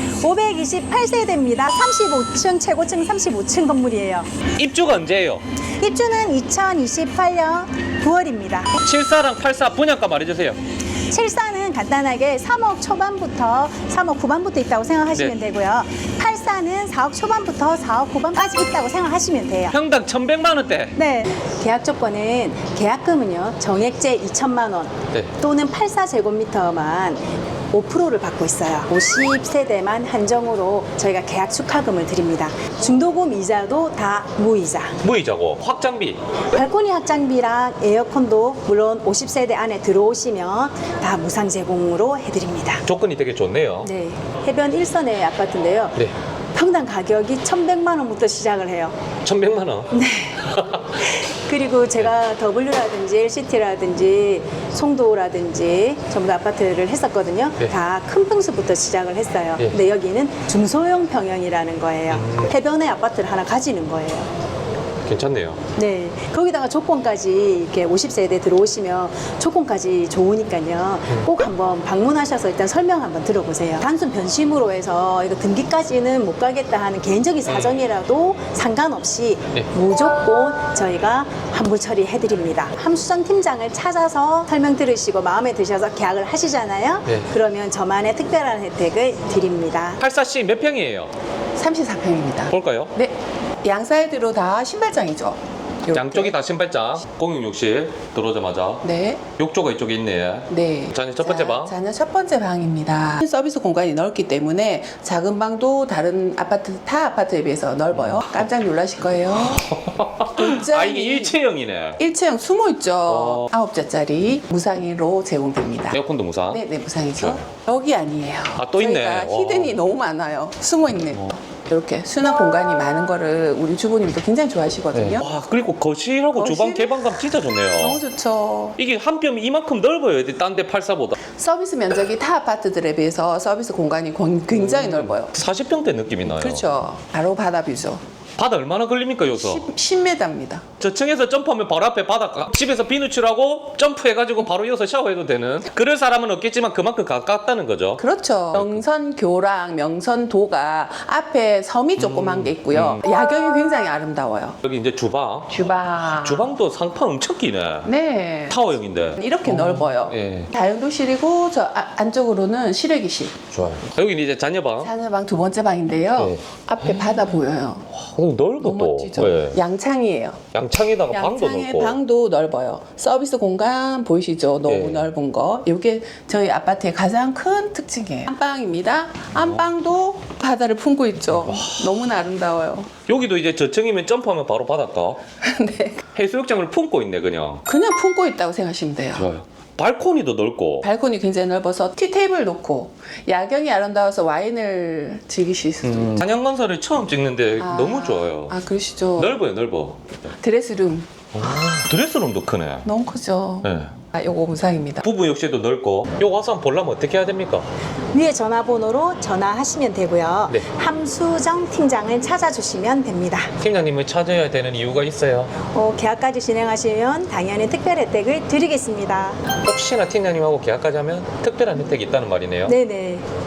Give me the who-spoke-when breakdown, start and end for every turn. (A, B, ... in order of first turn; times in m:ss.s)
0:00.2-0:04.3 A
0:04.6-0:05.4 B
0:05.8-0:08.8 A
0:08.8-0:10.6 B
0:11.1-0:19.8 A
0:19.7-0:20.9 B
0:21.0-0:35.0 A
0:35.0-0:36.2 B
0:36.5-0:42.8 A
0:42.8-0:43.9 B
0:43.8-0:46.0 A
0:46.5-0:48.9 A
0:49.2-0:49.9 B
0:49.9-1:04.3 A
0:50.5-0:50.9 B
1:02.1-1:02.5 B
1:05.0-1:05.6 B
1:05.8-1:30.0 A
1:17.5-1:17.8 B
1:30.0-1:31.1 B
1:31.6-1:36.3 C
1:32.5-1:32.9 B
1:35.9-1:38.8 B
1:38.8-1:39.2 C
1:39.4-1:41.8 B
1:40.5-1:49.7 C
1:47.9-1:48.4 B
1:49.4-1:52.0 B
1:50.4-1:51.4 C
1:52.0-1:56.0 C
1:53.1-1:53.5 B
1:55.9-1:56.6 B
1:56.5-2:05.3 C
1:58.6-1:59.8 B
2:04.9-2:08.0 B
2:06.3-2:07.2 C
2:07.8-2:08.8 C
2:08.8-2:11.2 B
2:11.4-2:15.3 C
2:14.5-2:16.7 B
2:16.3-2:18.0 C
2:18.4-2:19.7 B
2:19.3-2:20.6 C
2:20.8-2:28.8 B
2:28.0-2:34.6 C
2:32.0-2:33.0 B
2:34.6-2:37.9 B
2:35.5-2:36.5 C
2:37.8-2:43.4 C
2:38.5-2:40.5 B
2:43.5-2:44.9 B
2:44.8-2:47.9 C
2:46.2-2:47.1 B
2:47.9-2:49.6 B
2:48.6-2:50.4 C
2:50.5-2:52.0 B
2:51.1-3:02.9 C
2:54.6-2:55.1 B
2:59.3-2:59.7 B
3:01.3-3:02.0 B
3:03.1-3:05.2 B
3:05.4-3:06.0 C
3:06.1-3:07.6 B
3:07.7-3:09.3 C
3:09.1-3:10.9 B
3:10.8-3:16.2 C
3:15.8-3:18.6 B
3:17.6-3:19.4 C
3:19.2-3:20.0 B
3:20.4-3:21.1 C
3:21.3-3:22.9 B
3:22.8-3:25.0 C
3:23.6-3:23.9 B
3:25.0-3:27.6 B
3:28.1-3:33.5 A
3:33.6-3:35.5 B
3:35.7-3:39.4 A
3:39.6-3:42.8 B
3:42.7-3:43.2 A